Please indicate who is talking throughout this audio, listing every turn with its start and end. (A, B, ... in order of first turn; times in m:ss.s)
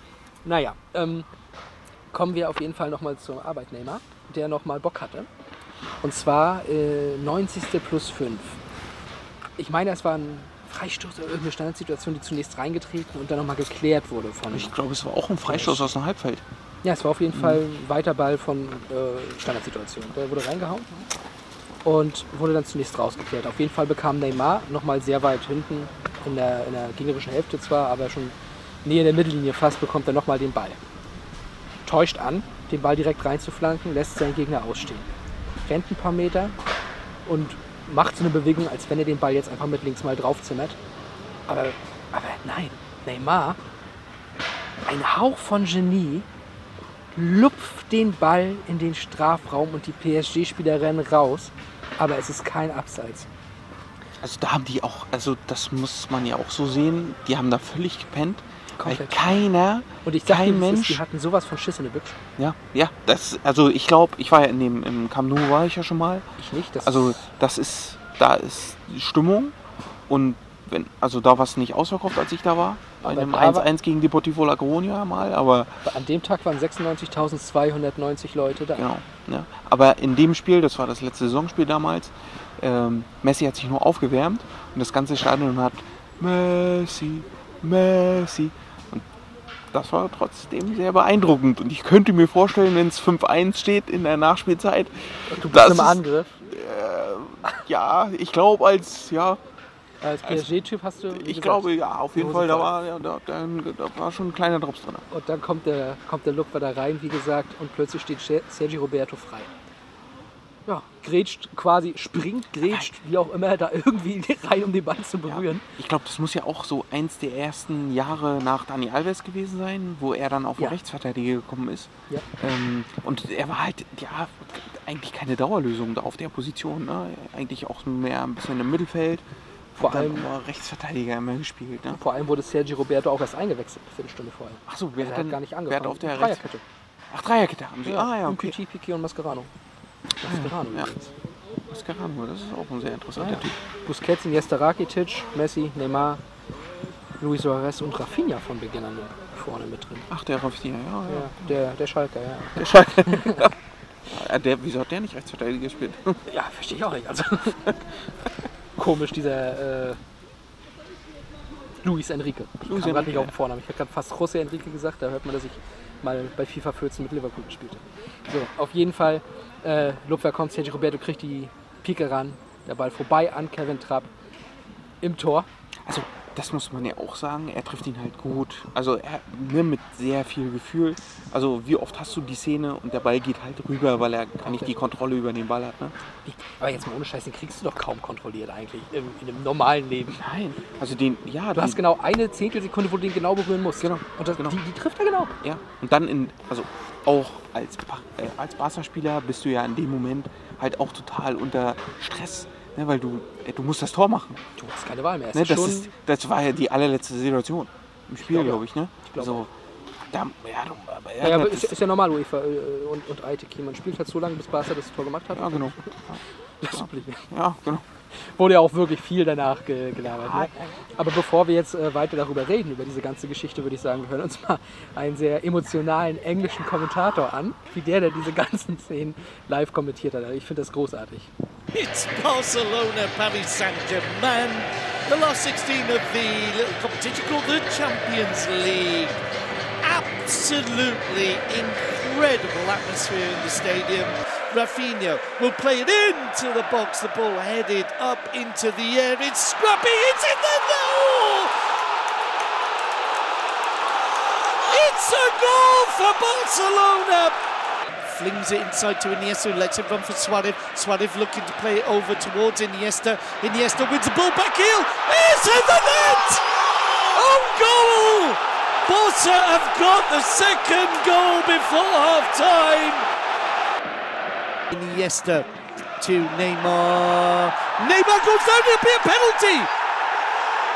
0:00.4-0:01.3 A
0:02.1-0:05.3 A
0:06.0-0:08.6 A
0:09.6-0:14.7 A
0:14.5-0:16.4 B
0:15.5-0:15.8 A
0:16.8-0:20.9 A
0:17.4-0:17.6 B
0:21.8-0:28.3 A
0:28.8-0:30.8 A
0:31.8-0:35.1 A
0:35.7-0:36.6 A
0:37.3-0:40.8 A
0:41.5-0:43.6 A
0:44.9-0:46.3 A
0:47.1-0:53.3 A
0:54.2-1:01.0 B
0:58.8-0:59.2 A
1:00.0-1:02.2 A
1:02.4-1:06.3 B
1:06.4-1:07.2 A
1:06.8-1:09.6 B
1:10.1-1:15.8 B
1:13.0-1:13.7 A
1:15.8-1:18.8 A
1:18.8-1:29.0 B
1:29.7-1:39.4 B
1:35.3-1:36.4 A
1:40.0-1:42.7 A
1:41.1-1:45.0 B
1:45.1-1:49.5 A
1:50.7-1:55.6 A
1:55.3-2:09.2 B
2:09.8-2:12.0 B
2:09.8-2:10.3 A
2:11.9-2:16.6 A
2:14.7-2:16.4 B
2:17.1-2:18.6 B
2:17.9-2:19.5 A
2:20.2-2:21.1 A
2:20.2-2:20.9 B
2:21.7-2:23.6 B
2:23.2-2:26.2 A
2:27.2-2:30.1 A
2:30.1-2:31.6 B
2:31.1-2:33.5 A
2:32.6-2:33.5 B
2:34.1-2:36.2 B
2:36.3-2:38.0 A
2:38.8-2:40.0 A
2:41.8-2:54.1 A
2:42.6-2:43.3 B
2:55.0-2:55.5 A
2:55.8-3:06.0 B
3:04.4-3:04.7 A
3:06.2-3:10.2 A
3:10.2-3:11.8 B
3:11.5-3:15.4 A
3:13.8-3:14.6 B
3:15.4-3:24.4 B
3:24.6-3:25.9 A
3:25.3-3:29.5 B
3:28.2-3:29.4 A
3:30.1-3:31.8 B
3:31.2-3:35.9 A
3:35.3-3:37.8 B
3:36.6-3:37.3 A
3:38.1-3:51.3 A
3:40.0-3:40.5 B
3:51.7-3:59.2 C
3:59.8-4:11.5 C
4:14.7-4:17.4 C
4:18.0-4:26.5 C
4:27.1-4:33.1 C
4:34.7-4:39.7 C